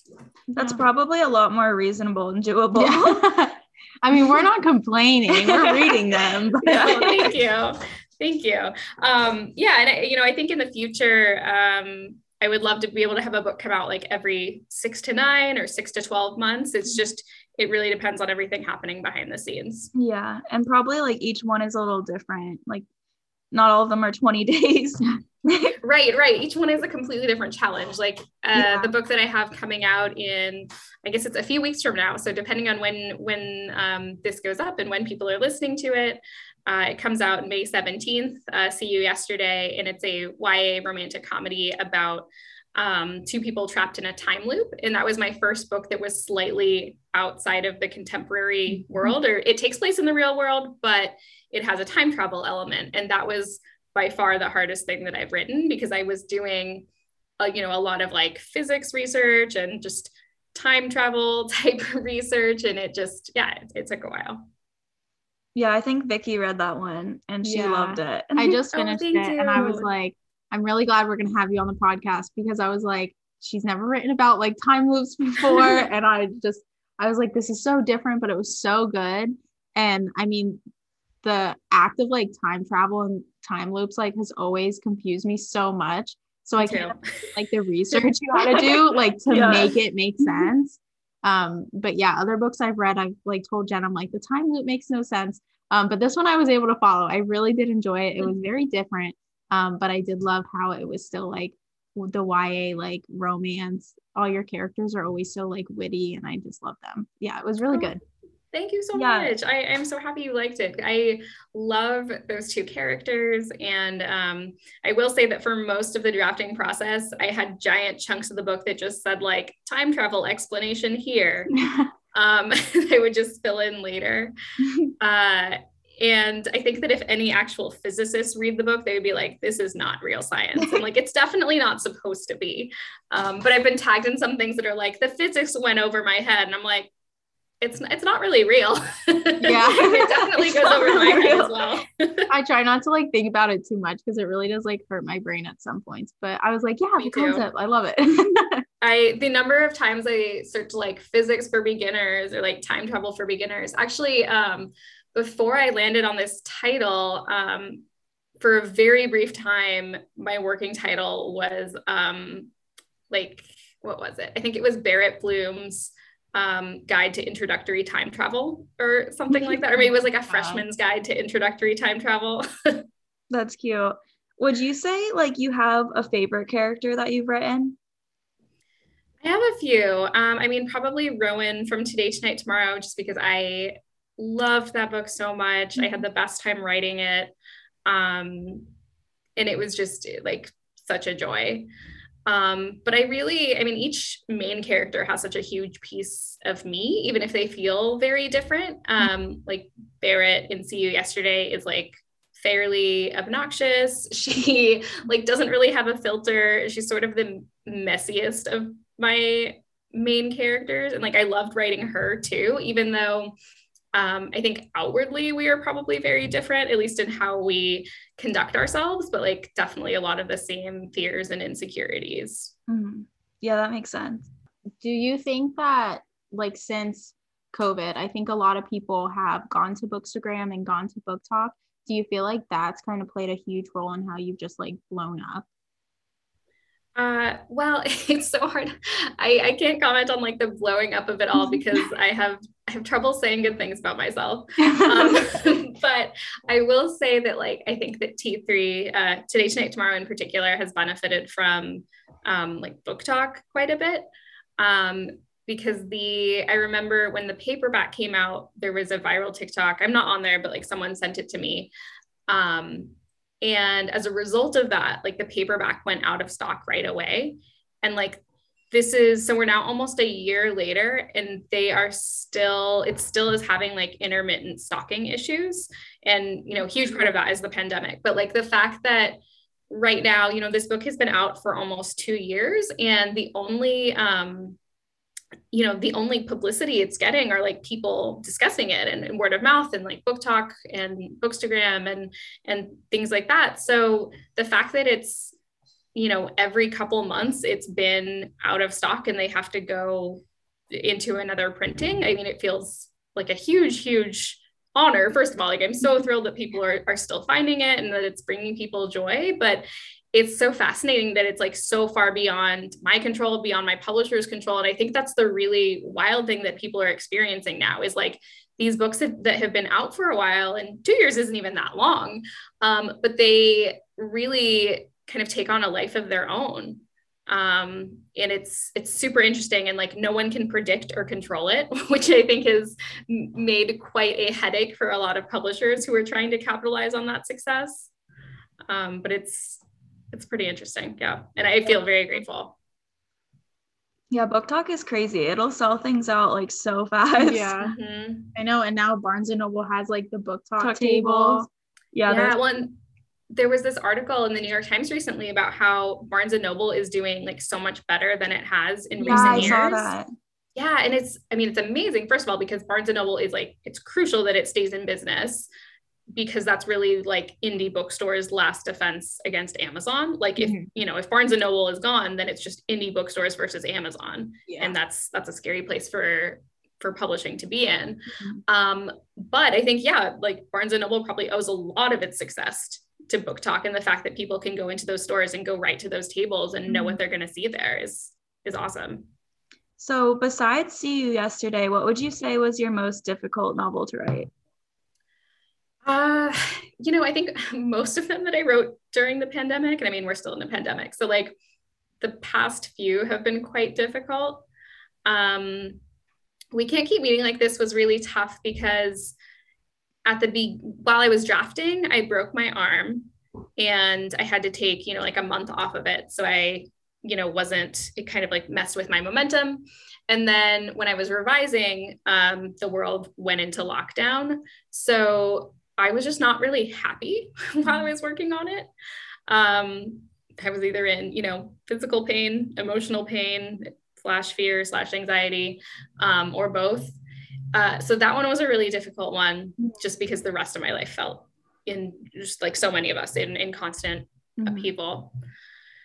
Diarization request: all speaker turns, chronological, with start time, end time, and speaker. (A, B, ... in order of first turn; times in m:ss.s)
0:00.5-0:03.4 A
0:02.8-0:07.2 B
0:05.3-0:07.1 A
0:06.7-0:19.9 C
0:19.9-0:22.8 A
0:23.5-0:25.8 A
0:25.8-0:56.8 C
0:28.5-0:28.9 A
0:57.4-1:04.5 C
1:05.5-1:09.9 A
1:07.4-1:20.6 B
1:21.2-1:48.0 B
1:26.6-1:27.2 C
1:28.3-1:30.5 A
1:48.5-2:01.5 C
1:48.9-1:49.3 A
2:02.1-2:04.3 C
2:05.0-2:16.9 C
2:17.6-2:22.3 C
2:19.4-2:19.9 B
2:19.8-2:21.6 A
2:22.3-2:28.6 B
2:27.0-2:27.4 C
2:28.8-2:37.8 C
2:38.4-2:42.5 C
2:43.1-2:52.8 C
2:50.3-2:50.6 B
2:53.3-2:57.8 A
2:59.2-3:07.3 C
3:07.8-3:08.7 C
3:09.4-3:11.7 C
3:12.2-3:33.3 C
3:33.9-3:42.5 C
3:42.7-3:44.3 A
3:44.8-3:55.5 B
3:57.0-4:14.0 C
4:04.8-4:05.4 B
4:14.6-4:21.7 C
4:22.3-4:44.6 C
4:45.5-4:55.3 C
4:55.9-5:37.9 C
5:38.7-5:42.6 C
5:44.1-5:47.5 A
5:47.2-5:47.7 B
5:47.6-5:48.3 C
5:48.3-5:51.5 B
5:50.6-5:52.4 A
5:52.1-5:52.8 C
5:53.3-5:59.9 C
5:59.0-5:59.6 B
5:59.0-6:00.1 A
6:00.5-6:05.5 C
6:06.1-6:29.1 C
6:10.4-6:10.7 B
6:14.5-6:14.7 B
6:26.7-6:27.0 A
6:29.8-6:34.3 A
6:35.8-6:41.3 C
6:42.0-6:44.4 C
6:45.0-6:45.8 C
6:46.5-6:49.1 C
6:50.0-7:08.7 C
7:09.3-7:17.0 C
7:17.5-7:25.1 C
7:24.4-7:24.7 A